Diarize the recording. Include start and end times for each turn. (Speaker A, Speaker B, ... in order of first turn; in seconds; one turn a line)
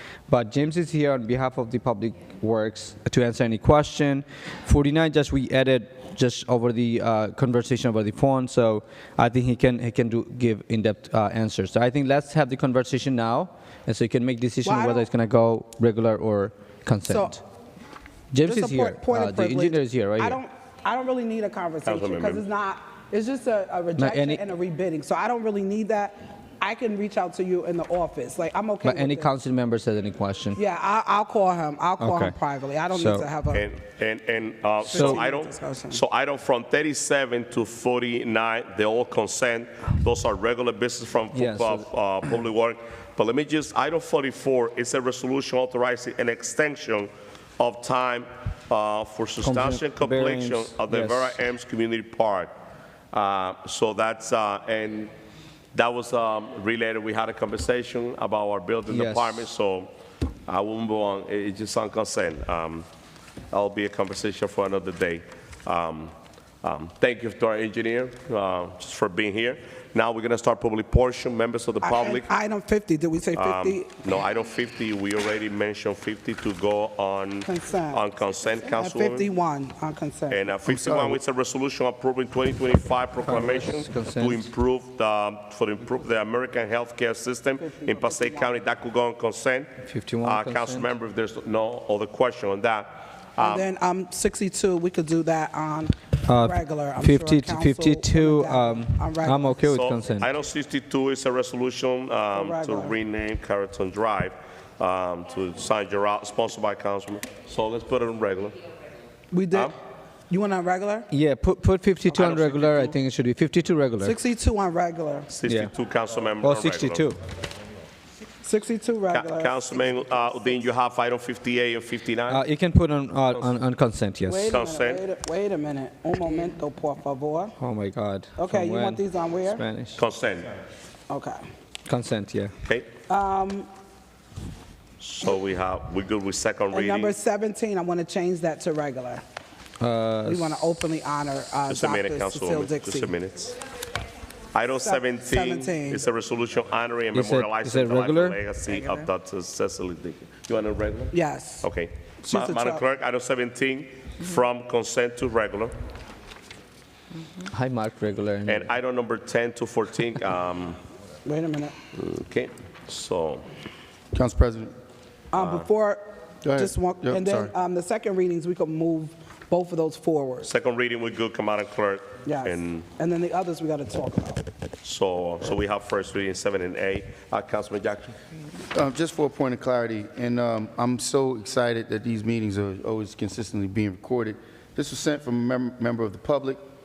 Speaker A: 0.3-17.4
Speaker B: 14.6-15.1
Speaker B: 17.1-17.4
Speaker A: 18.3-20.4
Speaker B: 18.4-29.3
Speaker C: 21.9-22.4
Speaker A: 24.0-24.4
Speaker A: 28.8-30.6
Speaker B: 30.6-33.7
Speaker A: 32.0-32.4
Speaker A: 32.9-33.3
Speaker C: 33.5-52.5
Speaker B: 34.9-36.0
Speaker A: 34.9-35.2
Speaker A: 41.3-41.9
Speaker A: 49.4-51.4
Speaker C: 53.1-55.1
Speaker C: 55.7-59.9
Speaker A: 58.9-59.5
Speaker C: 60.5-62.9
Speaker C: 63.5-72.3
Speaker B: 71.8-73.9
Speaker C: 73.3-79.3
Speaker B: 77.4-78.0
Speaker B: 78.6-80.8
Speaker C: 80.3-93.7
Speaker D: 80.7-81.2
Speaker A: 83.2-84.5
Speaker B: 87.6-88.5
Speaker A: 89.8-90.9
Speaker B: 93.4-99.7
Speaker A: 96.2-100.3
Speaker C: 99.6-108.6
Speaker B: 102.3-103.0
Speaker B: 109.3-109.7
Speaker B: 110.3-111.1
Speaker A: 111.1-114.2
Speaker C: 112.1-112.6
Speaker B: 112.2-112.9
Speaker B: 114.0-115.3
Speaker C: 115.3-117.1
Speaker A: 115.5-115.7
Speaker A: 116.4-117.2
Speaker B: 118.4-119.7
Speaker C: 119.1-122.4
Speaker A: 122.3-124.5
Speaker B: 124.2-127.5
Speaker C: 124.4-125.0
Speaker A: 127.6-130.0
Speaker B: 128.4-129.6
Speaker C: 130.0-130.5
Speaker B: 131.1-131.4
Speaker A: 131.9-132.5
Speaker C: 132.7-132.9
Speaker B: 133.1-133.7
Speaker C: 135.0-137.2
Speaker B: 136.7-139.2
Speaker A: 139.8-140.5
Speaker B: 140.2-143.2
Speaker C: 141.7-143.6
Speaker C: 144.5-155.7
Speaker B: 144.8-146.0
Speaker A: 147.1-148.4
Speaker B: 151.1-151.7
Speaker B: 152.3-152.8
Speaker A: 157.4-158.7
Speaker C: 158.5-160.8
Speaker B: 161.2-161.8
Speaker C: 161.9-163.4
Speaker D: 164.1-164.7
Speaker B: 165.3-170.5
Speaker C: 165.4-165.7
Speaker D: 166.4-167.5
Speaker C: 170.4-172.9
Speaker B: 172.2-174.5
Speaker C: 174.8-178.2
Speaker D: 178.7-186.6